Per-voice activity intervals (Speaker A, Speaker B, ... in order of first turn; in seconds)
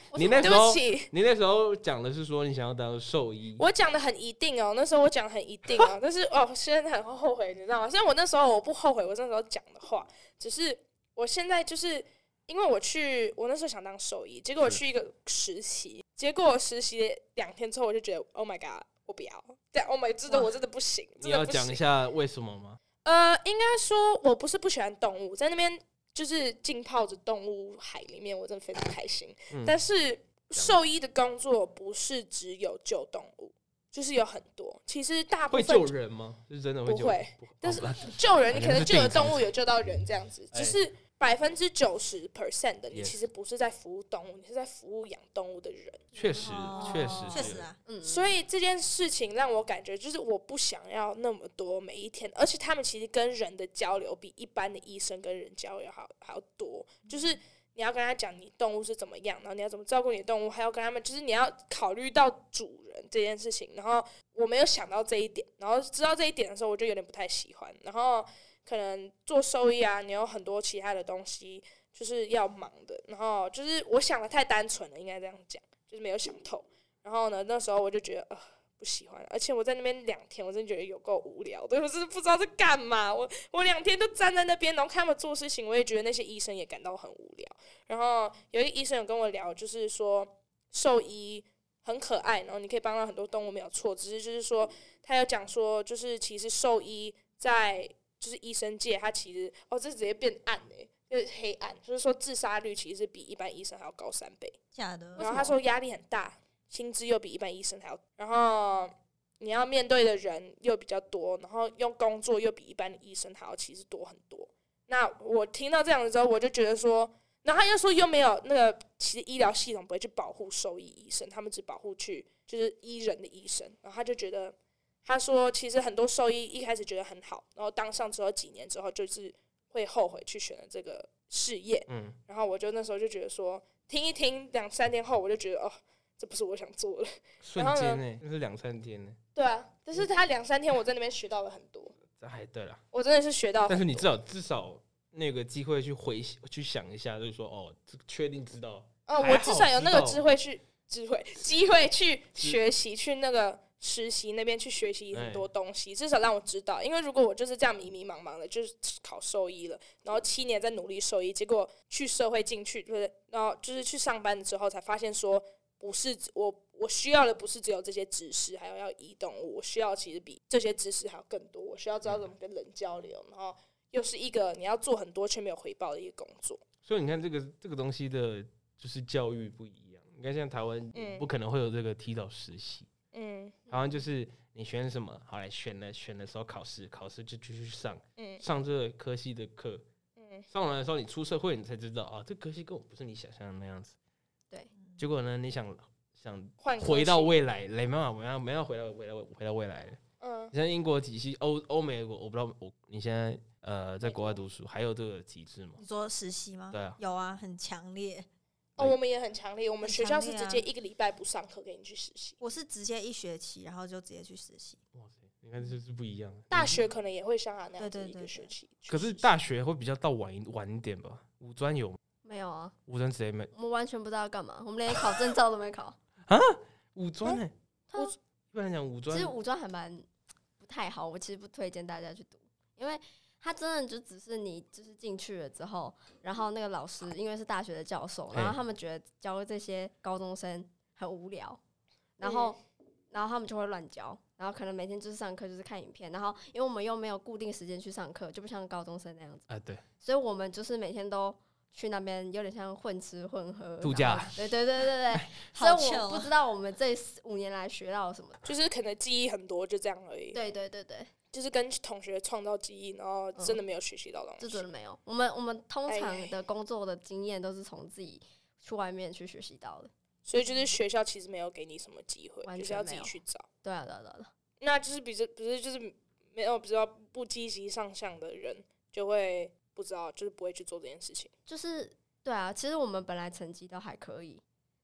Speaker A: 0.1-0.7, 47.9-48.3, 105.2-105.5, 222.2-222.8, 223.5-226.0, 229.1-230.1, 230.6-241.6, 242.2-242.6, 243.1-249.5, 250.0-258.4, 260.3-261.1, 264.4-269.9, 272.4-274.3, 281.5-284.4
Speaker B: 0.1-3.6, 21.2-22.8, 29.5-29.8, 35.5-39.5, 40.5-40.8, 42.9-43.2, 46.1-47.7, 131.9-132.2, 137.4-139.2, 142.2-142.8, 143.7-150.2, 155.1-155.5, 176.8-182.9, 183.7-189.8, 190.5-193.9, 195.0-200.0, 200.5-205.8, 206.7-207.0, 214.9-216.8, 218.9-222.0, 222.9-223.5, 226.3-227.5, 228.5-229.3, 238.3-238.6, 249.5-249.8, 253.8-254.3
Speaker C: 0.3-1.1, 3.6-21.8, 23.0-36.0, 36.9-46.0, 48.0-104.6, 105.2-138.0, 139.3-142.0, 142.9-144.1, 149.1-176.6, 180.9-181.3, 183.1-183.6, 188.2-188.4, 190.2-190.5, 196.6-197.3, 200.2-200.5, 204.0-204.4, 208.8-212.4, 216.5-219.3, 242.2-242.6, 258.4-260.4, 261.3-264.6, 265.9-266.4, 270.2-273.5, 274.6-281.3
Speaker D: 46.3-47.8, 104.7-105.5, 205.8-208.3, 209.8-210.7, 212.4-214.8, 217.8-218.5, 255.4-256.3